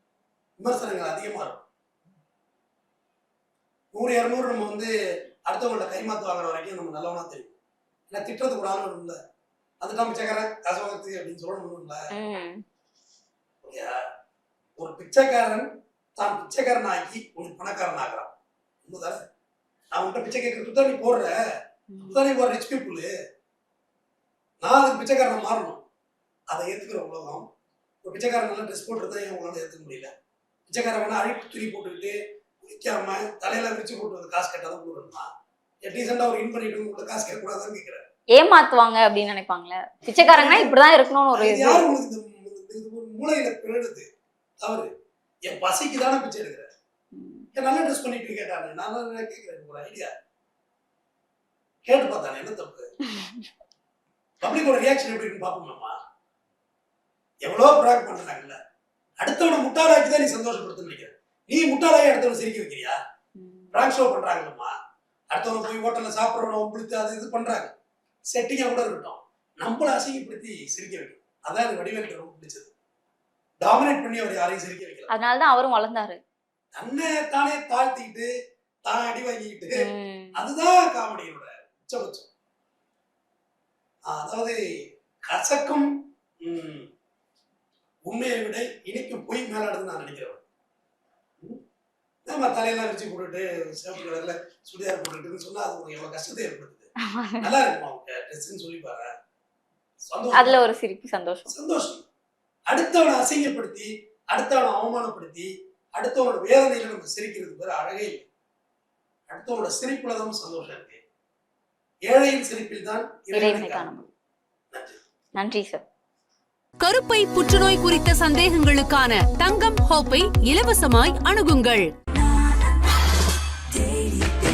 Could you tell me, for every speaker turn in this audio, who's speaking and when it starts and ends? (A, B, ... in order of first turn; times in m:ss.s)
0:00.6-0:01.6 A
0:03.9-0:04.9 A
0:05.5-0:07.6 A
0:08.1-0:09.2 A
0:09.8-0:12.1 A
0:12.1-0:12.6 B
0:13.6-0:14.1 A
0:14.8-0:18.3 A
0:18.8-0:19.3 A
0:19.9-0:21.4 A
0:21.9-0:22.2 B
0:22.0-0:23.1 A
0:24.6-0:25.8 A
0:26.5-0:27.4 A
0:28.0-0:30.1 A
0:30.7-0:35.3 A
0:35.8-0:38.0 A
0:38.3-0:41.8 B
0:40.1-0:40.7 A
0:41.3-0:44.1 A
0:44.6-0:44.9 A
0:45.5-0:46.7 A
0:47.1-0:47.5 B
0:47.6-0:50.1 A
0:51.9-0:52.9 A
0:53.1-0:53.5 B
0:54.4-0:56.0 A
0:57.4-0:58.6 A
0:59.2-1:03.0 A
1:03.4-1:03.8 B
1:03.7-1:04.7 A
1:05.3-1:07.7 A
1:08.3-1:12.7 A
1:13.6-1:15.1 A
1:15.1-1:16.2 B
1:16.8-1:18.3 A
1:18.9-1:22.3 A
1:19.8-1:20.4 B
1:24.1-1:24.6 A
1:25.3-1:26.9 A
1:28.0-1:30.4 A
1:32.3-1:39.1 A
1:37.0-1:37.5 B
1:40.1-1:40.6 A
1:40.3-1:41.5 B
1:41.5-1:42.1 A
1:42.7-1:48.3 A
1:49.3-1:51.0 A
1:52.1-1:53.9 A
1:53.3-1:54.1 B
1:54.7-1:55.0 A
1:55.4-1:55.8 B
1:56.8-2:01.9 C